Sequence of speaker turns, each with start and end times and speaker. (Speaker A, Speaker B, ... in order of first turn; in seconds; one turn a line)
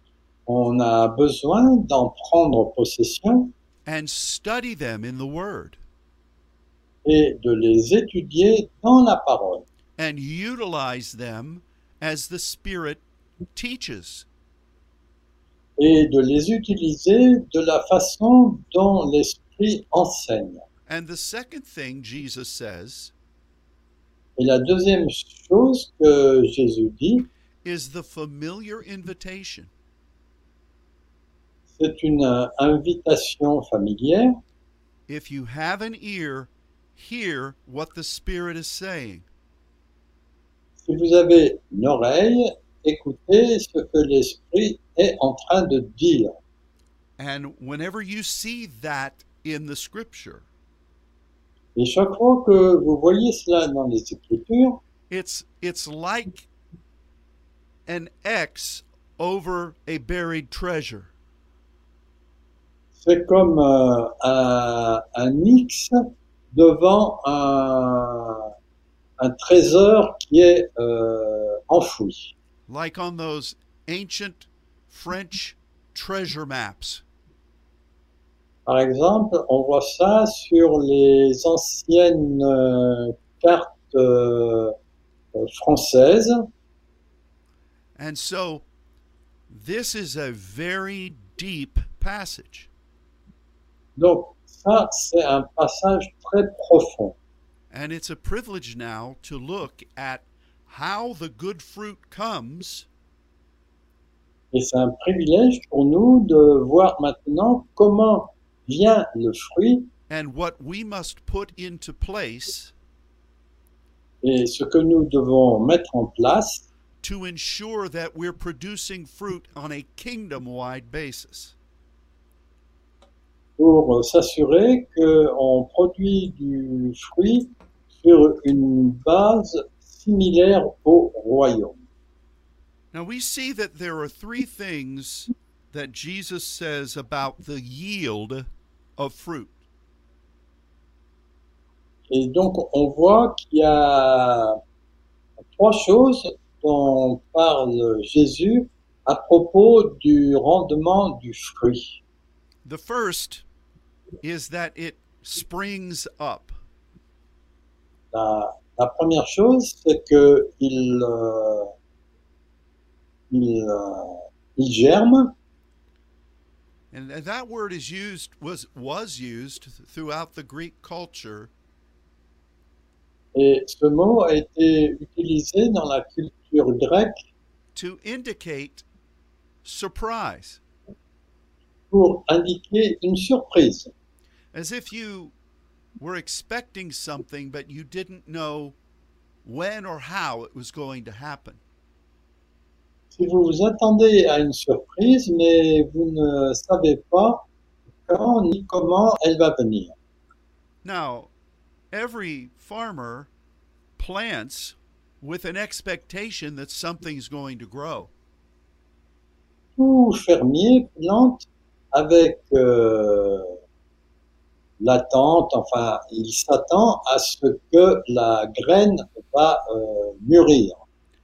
Speaker A: 0.5-3.5
Speaker B: 3.9-5.8
Speaker A: 7.0-9.7
Speaker B: 10.0-13.0
Speaker B: 13.5-14.3
Speaker A: 15.8-20.6
Speaker B: 20.9-23.1
Speaker A: 24.4-27.3
Speaker B: 27.6-29.7
Speaker A: 31.8-34.4
Speaker B: 35.1-39.3
Speaker A: 40.8-46.4
Speaker B: 47.2-50.5
Speaker A: 51.8-54.8
Speaker B: 55.1-56.5
Speaker B: 57.9-61.1
Speaker A: 63.0-66.0
Speaker A: 66.5-68.5
Speaker A: 69.2-72.3
Speaker B: 72.7-77.0
Speaker A: 78.7-84.8
Speaker A: 85.3-86.5
Speaker B: 88.0-88.7
Speaker B: 89.5-92.7
Speaker A: 94.0-97.2
Speaker B: 97.7-102.9
Speaker A: 104.5-109.9
Speaker B: 110.1-112.7
Speaker A: 114.2-116.7
Speaker B: 117.0-121.5
Speaker A: 123.6-131.8
Speaker B: 132.9-138.5
Speaker B: 139.0-139.6
Speaker A: 142.1-144.6
Speaker A: 145.5-152.0
Speaker B: 152.7-153.4
Speaker B: 154.2-156.6
Speaker A: 158.1-161.7
Speaker A: 163.3-165.3
Speaker B: 166.9-171.5
Speaker A: 173.3-177.2
Speaker B: 177.8-178.8
Speaker B: 179.6-180.6
Speaker A: 181.9-183.9
Speaker B: 184.5-185.3
Speaker B: 186.0-188.8
Speaker B: 189.4-191.6
Speaker A: 193.1-197.4
Speaker A: 198.1-199.9
Speaker B: 200.8-201.3
Speaker B: 201.9-203.3
Speaker B: 204.0-208.1
Speaker A: 209.8-213.6
Speaker A: 214.8-220.8